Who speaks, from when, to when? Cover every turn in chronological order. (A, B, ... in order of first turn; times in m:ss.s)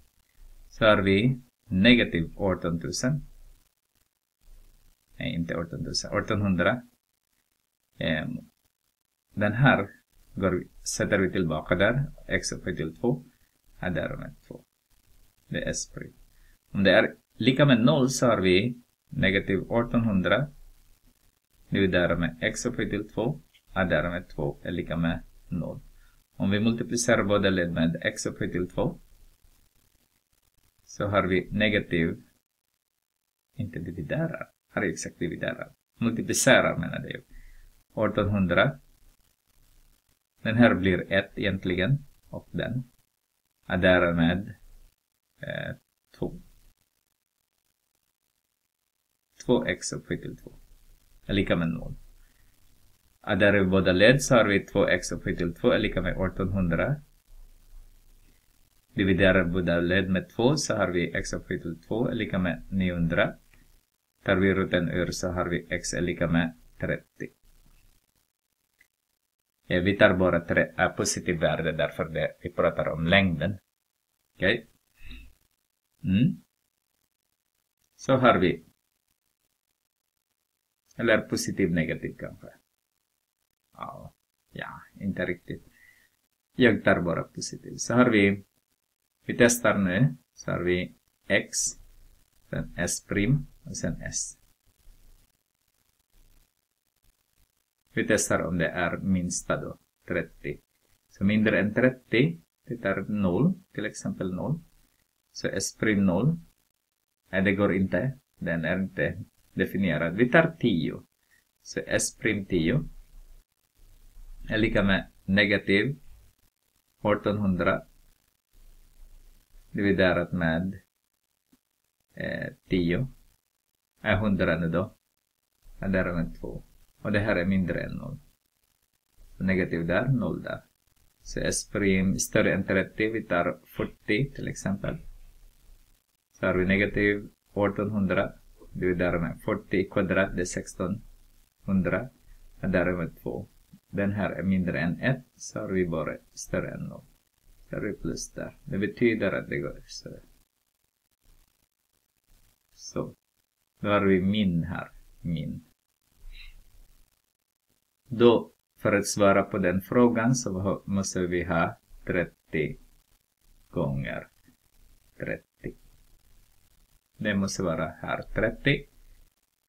0:00.7-0:03.3 A
0:05.2-0:06.8 A
0:08.0-0:08.5 A
0:09.4-0:13.3 A
0:13.8-0:14.7 A
0:15.5-0:16.2 A
0:16.7-0:20.5 A
0:21.7-0:25.8 A
0:26.4-0:29.0 A
0:30.9-0:32.2 A
0:33.6-0:37.2 A
0:38.0-0:38.8 A
0:40.4-0:42.9 A
0:43.7-0:44.6 A
0:45.4-0:46.4 A
0:49.4-0:50.6 A
0:51.3-0:52.0 A
0:53.3-0:57.0 A
0:59.0-1:03.4 A
1:04.2-1:07.3 A
1:09.7-1:13.6 A
1:14.4-1:14.7 A
1:16.0-1:16.4 A
1:18.0-1:18.6 A
1:21.0-1:22.6 A
1:23.8-1:25.6 A
1:26.6-1:28.4 A
1:29.3-1:31.8 A
1:32.5-1:34.4 A
1:37.9-1:40.6 A
1:41.1-1:44.6 A
1:45.3-1:46.4 A
1:47.3-1:51.1 A
1:51.6-1:52.9 A
1:54.5-1:56.0 A
1:57.0-1:57.8 A
1:59.7-2:00.8 A
2:02.2-2:03.1 A
2:04.0-2:04.9 A
2:05.8-2:08.2 A
2:09.4-2:10.6 A
2:11.2-2:15.0 A
2:16.4-2:21.0 A
2:21.6-2:22.1 A
2:22.6-2:27.1 A
2:27.7-2:30.2 A
2:32.8-2:33.2 A
2:33.8-2:35.6 A
2:38.1-2:42.8 A
2:43.7-2:44.3 A
2:45.2-2:45.8 A
2:47.2-2:48.9 A